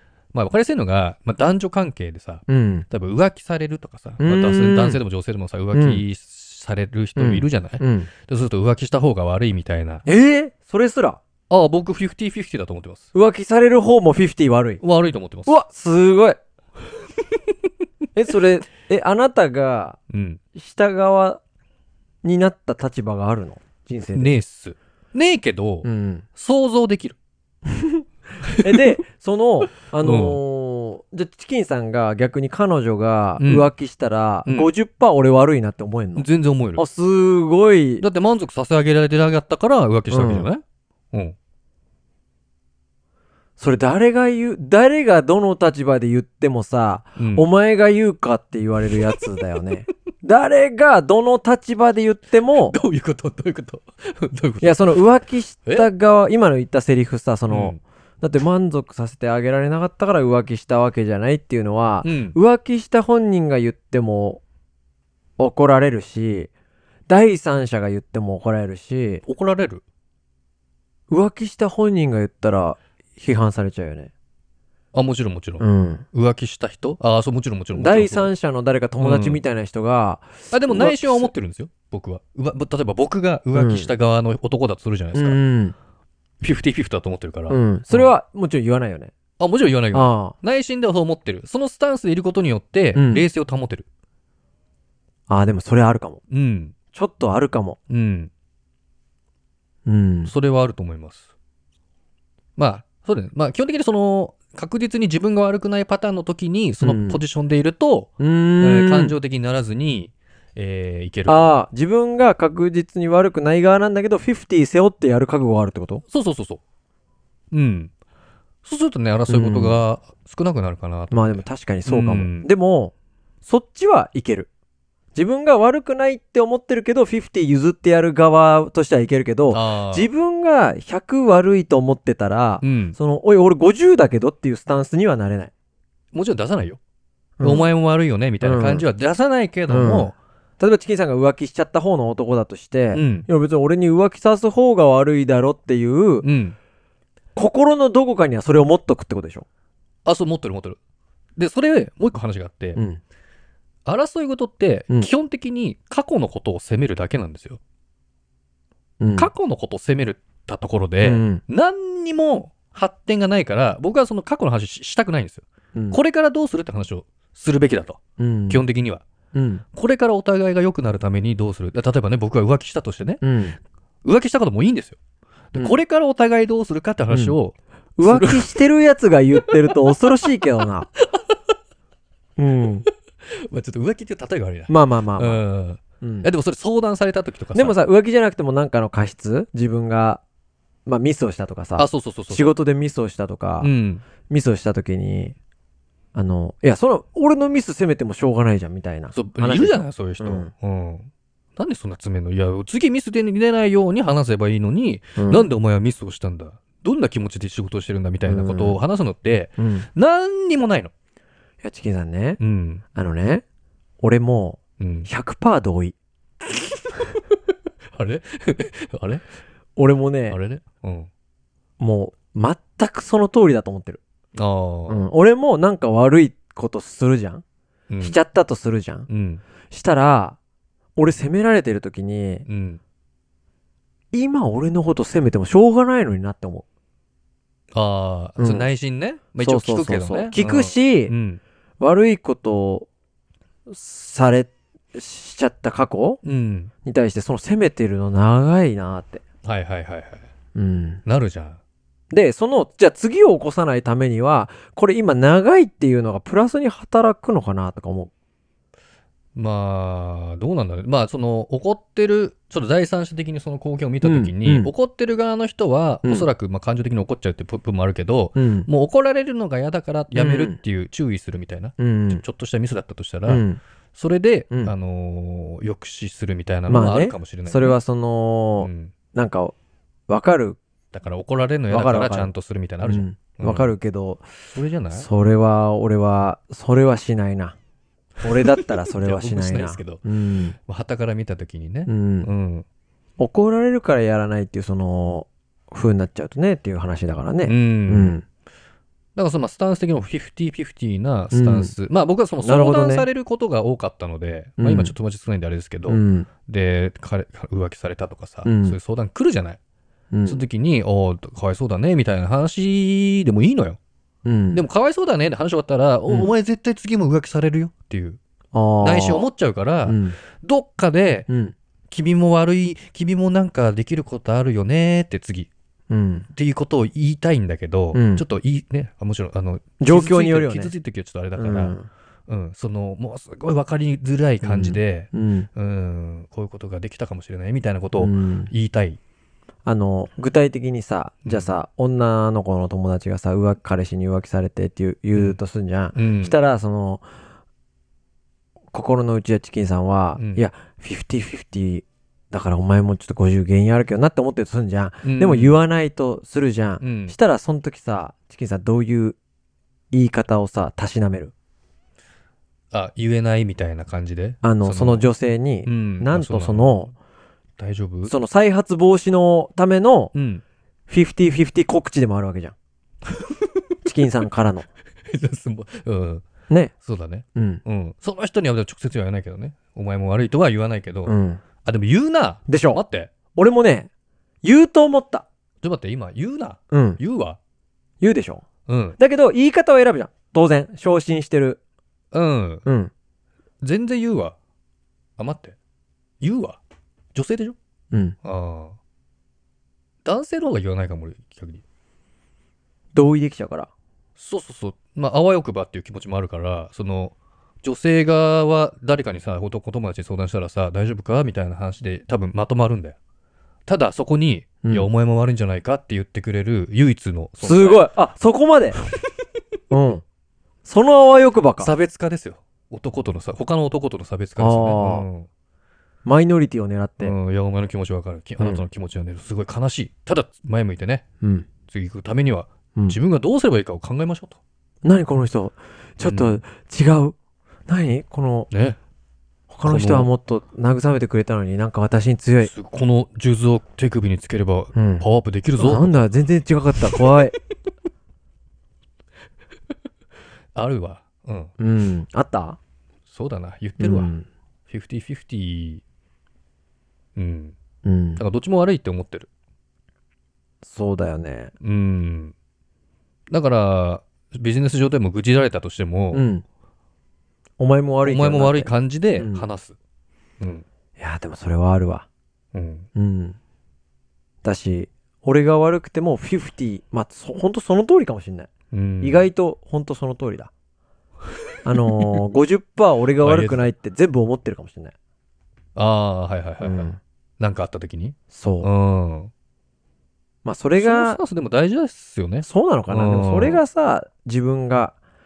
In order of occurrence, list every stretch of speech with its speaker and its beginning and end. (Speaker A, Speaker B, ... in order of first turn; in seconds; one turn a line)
Speaker A: 0.3-10.1
Speaker B: 2.5-2.9
Speaker B: 4.2-5.0
Speaker B: 5.7-6.0
Speaker B: 7.2-8.1
Speaker B: 10.1-11.2
Speaker A: 11.5-13.1
Speaker B: 13.1-14.8
Speaker A: 14.8-15.6
Speaker B: 15.5-16.4
Speaker B: 18.1-20.0
Speaker A: 20.1-20.4
Speaker B: 20.6-21.4
Speaker B: 22.2-24.3
Speaker A: 24.1-27.2
Speaker B: 25.8-26.3
Speaker B: 27.7-38.0
Speaker A: 28.4-28.8
Speaker A: 30.0-30.4
Speaker A: 33.4-33.7
Speaker A: 34.5-34.7
Speaker A: 36.2-36.8
Speaker A: 38.0-41.4
Speaker B: 40.1-40.5
Speaker B: 43.6-52.8
Speaker A: 47.2-47.5
Speaker A: 52.5-54.9
Speaker B: 54.6-64.4
Speaker A: 57.5-57.8
Speaker A: 62.0-62.4
Speaker B: 65.4-66.5
Speaker B: 67.1-69.2
Speaker A: 69.2-69.8
Speaker B: 71.1-74.1
Speaker A: 74.9-78.3
Speaker B: 75.6-76.1
Speaker B: 77.8-81.3
Speaker A: 79.0-79.4
Speaker A: 80.5-85.4
Speaker B: 83.5-83.9
Speaker B: 85.1-85.8
Speaker A: 86.4-88.1
Speaker B: 87.5-89.1
Speaker A: 89.4-93.9
Speaker B: 89.9-90.4
Speaker B: 93.0-93.2
Speaker B: 95.3-96.2
Speaker A: 96.3-96.8
Speaker B: 96.9-97.8
Speaker A: 97.9-98.3
Speaker B: 99.9-100.3
Speaker A: 100.2-101.3
Speaker A: 102.6-111.5
Speaker B: 106.8-107.2
Speaker B: 108.2-109.2
Speaker B: 111.3-116.0
Speaker A: 116.1-116.6
Speaker A: 117.5-117.9
Speaker A: 118.6-122.5
Speaker B: 119.3-119.8
Speaker B: 121.1-122.9
Speaker B: 123.4-124.5
Speaker B: 125.1-135.5
Speaker A: 129.5-130.1
Speaker A: 132.6-133.0
Speaker A: 136.1-136.8
Speaker B: 137.4-137.7
Speaker A: 137.4-140.2
Speaker B: 138.4-138.8
Speaker B: 139.7-146.2
Speaker A: 142.9-143.3
Speaker A: 146.2-146.6
Speaker B: 147.3-149.5
Speaker A: 150.1-150.8
Speaker A: 151.4-152.8
Speaker B: 152.8-153.0
Speaker A: 153.9-157.6
Speaker B: 159.0-159.3
Speaker A: 159.2-168.0
Speaker B: 161.0-161.4
Speaker B: 168.2-168.6
Speaker A: 168.5-169.0
Speaker B: 169.3-169.6
Speaker A: 169.8-173.2
Speaker B: 173.2-173.6
Speaker A: 174.1-175.0
Speaker A: 175.5-178.5
Speaker B: 177.1-177.4
Speaker B: 178.0-180.9
Speaker A: 179.4-180.0
Speaker B: 182.4-182.9
Speaker A: 183.3-187.8
Speaker B: 184.7-185.4
Speaker B: 186.0-186.3
Speaker B: 187.6-190.2
Speaker B: 190.9-193.7
Speaker A: 191.8-192.5
Speaker A: 193.6-194.1
Speaker B: 194.3-195.4
Speaker B: 196.2-200.5
Speaker A: 199.1-210.9
Speaker B: 205.2-205.5
Speaker B: 208.2-208.8
Speaker B: 209.6-209.9
Speaker B: 211.6-212.4
Speaker A: 212.4-212.8
Speaker B: 212.9-213.4
Speaker B: 214.0-216.0
Speaker A: 214.8-215.1
Speaker A: 217.9-219.2
Speaker B: 219.8-220.4
Speaker A: 220.3-221.1
Speaker B: 221.8-224.0
Speaker A: 224.3-225.0
Speaker B: 224.9-227.4
Speaker A: 227.9-228.2
Speaker B: 228.0-229.1
Speaker A: 229.1-229.4
Speaker B: 229.7-230.4
Speaker B: 231.0-232.4
Speaker A: 232.5-232.8
Speaker B: 234.1-236.7
Speaker A: 237.7-241.4
Speaker B: 238.4-238.7
Speaker B: 239.4-241.1
Speaker B: 241.8-242.9
Speaker B: 243.7-246.2
Speaker A: 246.2-246.7
Speaker B: 246.8-249.2
Speaker A: 249.4-250.3
Speaker B: 250.6-251.0
Speaker A: 251.1-251.6
Speaker B: 252.1-258.1
Speaker A: 259.4-273.4
Speaker B: 264.0-264.7
Speaker B: 268.4-268.7
Speaker B: 270.1-270.6
Speaker B: 271.8-272.2
Speaker B: 273.3-273.6
Speaker A: 273.9-277.8
Speaker B: 276.7-279.6
Speaker A: 278.6-278.9
Speaker B: 280.1-280.6
Speaker A: 280.9-283.7
Speaker B: 281.7-282.3
Speaker B: 282.8-284.3
Speaker A: 284.5-285.1
Speaker B: 284.9-287.6
Speaker B: 288.2-290.6
Speaker A: 288.4-290.0
Speaker A: 290.7-292.6
Speaker B: 291.9-292.3
Speaker B: 293.2-298.2
Speaker A: 297.4-298.2
Speaker A: 299.1-309.6
Speaker B: 301.3-301.8
Speaker B: 302.4-303.1
Speaker B: 304.6-304.9
Speaker B: 305.9-306.3
Speaker B: 308.5-308.8
Speaker B: 310.1-310.4
Speaker A: 310.3-313.8
Speaker B: 314.2-314.6
Speaker A: 314.5-318.2
Speaker B: 318.5-319.3
Speaker A: 318.8-321.3
Speaker B: 319.9-320.2
Speaker B: 321.3-321.6
Speaker A: 321.9-325.5
Speaker B: 325.9-326.3
Speaker A: 326.3-331.7
Speaker B: 327.9-328.2
Speaker B: 329.8-330.7
Speaker B: 331.4-331.9
Speaker A: 332.3-339.0
Speaker B: 334.4-335.5
Speaker B: 338.0-338.5
Speaker B: 339.6-347.1
Speaker A: 341.2-341.5
Speaker A: 345.9-346.4
Speaker B: 348.7-359.2
Speaker A: 350.2-350.4
Speaker A: 355.0-355.6
Speaker A: 356.8-357.1
Speaker B: 359.9-361.3
Speaker A: 362.7-365.1
Speaker B: 364.4-366.9
Speaker A: 365.6-366.9
Speaker A: 367.6-368.1
Speaker B: 368.1-370.1
Speaker A: 370.1-370.4
Speaker B: 370.9-372.6
Speaker A: 373.1-373.8
Speaker B: 373.9-374.7
Speaker A: 375.1-376.3
Speaker A: 376.8-381.1
Speaker B: 377.4-377.6
Speaker B: 381.1-381.4
Speaker A: 381.6-383.1
Speaker B: 382.5-382.8
Speaker B: 383.3-383.9
Speaker B: 384.4-385.3
Speaker A: 385.6-387.4
Speaker B: 386.7-387.0
Speaker B: 388.0-388.4
Speaker A: 388.7-389.0
Speaker B: 389.0-391.6
Speaker A: 392.1-392.6
Speaker B: 392.6-392.9
Speaker A: 393.6-394.4
Speaker A: 395.2-395.6
Speaker A: 396.2-396.6
Speaker A: 397.1-397.6
Speaker B: 397.9-398.2
Speaker A: 398.2-398.8
Speaker A: 400.1-401.6
Speaker B: 402.9-403.7
Speaker A: 404.2-413.0
Speaker A: 413.7-417.9
Speaker B: 417.4-418.8
Speaker B: 419.7-420.0
Speaker B: 420.6-421.7
Speaker A: 421.6-425.3
Speaker B: 424.4-425.1
Speaker B: 426.1-427.1
Speaker A: 427.0-431.0
Speaker B: 431.2-431.5
Speaker A: 431.7-434.4
Speaker B: 434.8-437.2
Speaker A: 436.0-436.4
Speaker B: 437.7-438.5
Speaker A: 438.5-438.8
Speaker B: 439.5-442.5
Speaker A: 439.6-440.1
Speaker A: 442.4-446.0
Speaker B: 444.8-445.1
Speaker B: 445.6-447.4
Speaker A: 446.8-447.2
Speaker A: 450.6-451.5
Speaker B: 451.6-452.6
Speaker A: 453.1-454.1
Speaker B: 453.8-454.3
Speaker A: 454.7-455.8
Speaker A: 457.2-457.6
Speaker B: 457.8-458.2
Speaker A: 458.2-459.3
Speaker B: 460.6-461.5
Speaker A: 461.6-462.3
Speaker A: 463.3-466.2
Speaker B: 466.1-466.4
Speaker B: 467.6-469.5
Speaker A: 468.0-469.8
Speaker B: 471.0-472.1
Speaker A: 472.5-472.9
Speaker B: 472.9-473.4
Speaker B: 474.4-478.5
Speaker A: 478.7-479.3
Speaker B: 479.0-480.5
Speaker B: 481.6-484.9
Speaker A: 483.2-483.7
Speaker A: 485.8-486.9
Speaker B: 486.6-487.0
Speaker A: 487.4-489.3
Speaker B: 488.3-488.7
Speaker B: 490.4-491.2
Speaker A: 490.8-493.6
Speaker B: 492.4-495.0